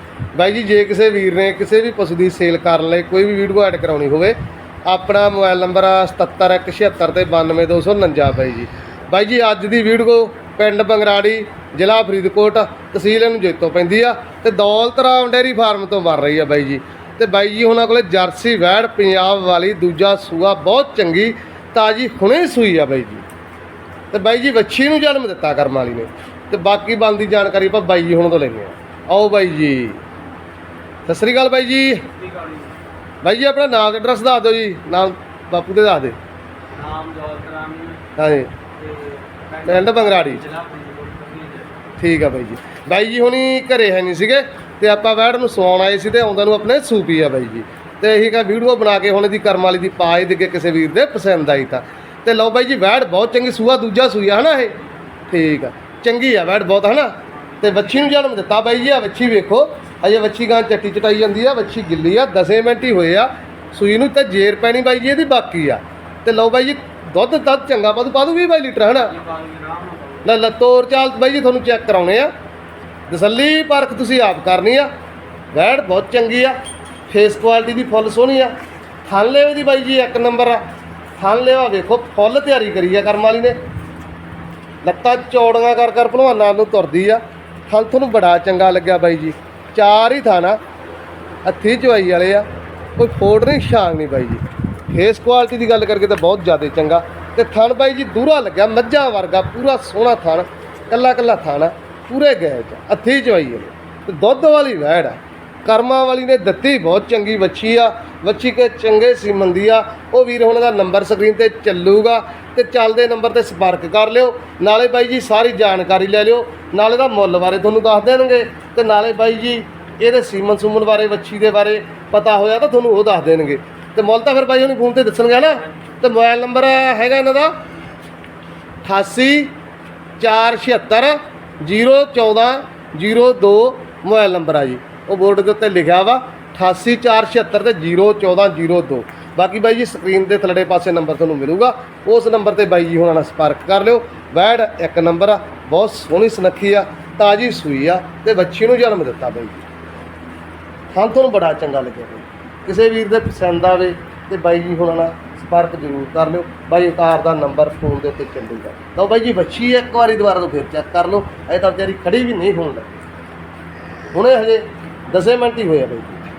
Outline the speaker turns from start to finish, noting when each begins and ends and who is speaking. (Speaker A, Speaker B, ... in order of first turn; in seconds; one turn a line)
Speaker A: 0.3-23.2
Speaker A: 24.1-30.0
Speaker A: 31.1-32.1
Speaker B: 32.1-32.8
Speaker A: 33.2-36.1
Speaker B: 36.7-38.1
Speaker A: 38.2-38.5
Speaker B: 38.8-41.7
Speaker A: 39.6-40.4
Speaker A: 42.0-69.2
Speaker B: 57.5-58.0
Speaker B: 68.9-70.3
Speaker A: 70.2-72.3
Speaker A: 73.1-74.9
Speaker A: 75.5-76.5
Speaker A: 77.1-78.5
Speaker A: 79.1-80.6
Speaker A: 81.2-83.5
Speaker A: 84.8-90.6
Speaker A: 91.4-92.5
Speaker A: 93.0-127.5
Speaker A: 128.8-129.5
Speaker A: 130.2-149.6
Speaker A: 150.9-162.9
Speaker A: 164.1-166.2